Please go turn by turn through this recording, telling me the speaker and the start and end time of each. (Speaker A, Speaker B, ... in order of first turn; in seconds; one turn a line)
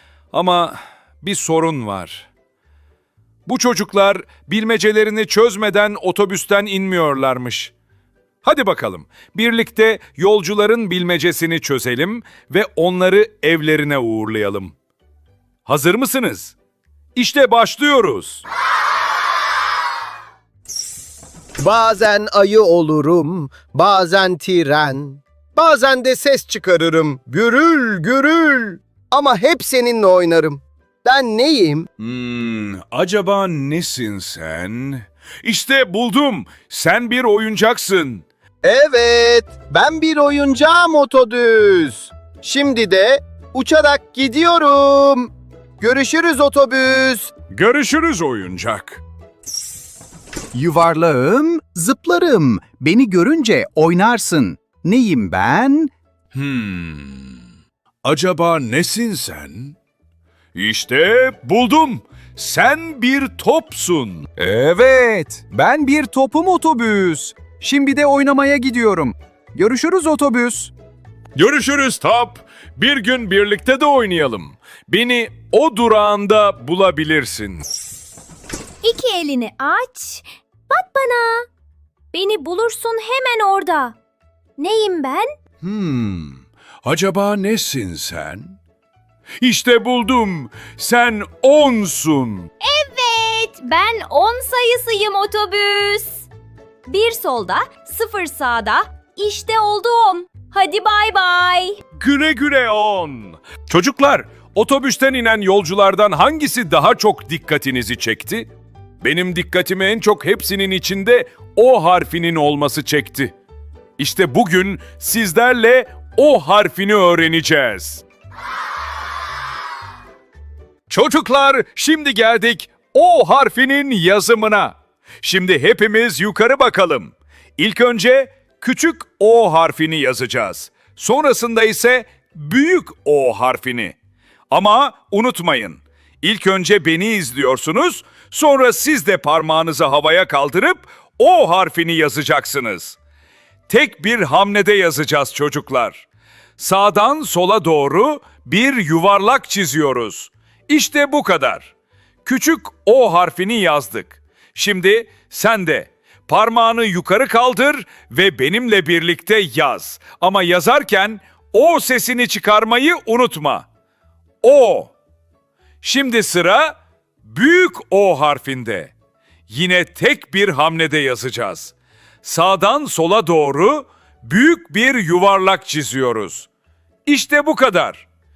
Speaker A: 0.3-2.3
Speaker A: 3.5-7.7
Speaker A: 8.4-14.7
Speaker A: 15.7-16.5
Speaker A: 17.1-18.4
Speaker B: 21.6-31.9
Speaker A: 32.0-38.2
Speaker B: 38.6-47.3
Speaker A: 47.5-49.0
Speaker C: 50.5-55.9
Speaker A: 56.3-57.4
Speaker A: 58.0-59.8
Speaker A: 60.5-64.8
Speaker C: 64.8-70.7
Speaker A: 71.3-77.6
Speaker D: 78.8-81.5
Speaker D: 82.1-84.0
Speaker D: 84.6-85.3
Speaker A: 85.6-88.5
Speaker A: 89.4-92.5
Speaker D: 92.6-96.3
Speaker D: 96.9-101.8
Speaker A: 101.9-108.5
Speaker A: 109.0-113.3
Speaker A: 114.0-118.0
Speaker A: 120.9-133.9
Speaker A: 134.5-143.0
Speaker A: 143.7-146.1
Speaker A: 146.6-151.7
Speaker A: 152.2-163.7
Speaker A: 164.4-164.9
Speaker A: 165.8-168.9
Speaker A: 169.5-176.5
Speaker A: 177.1-178.0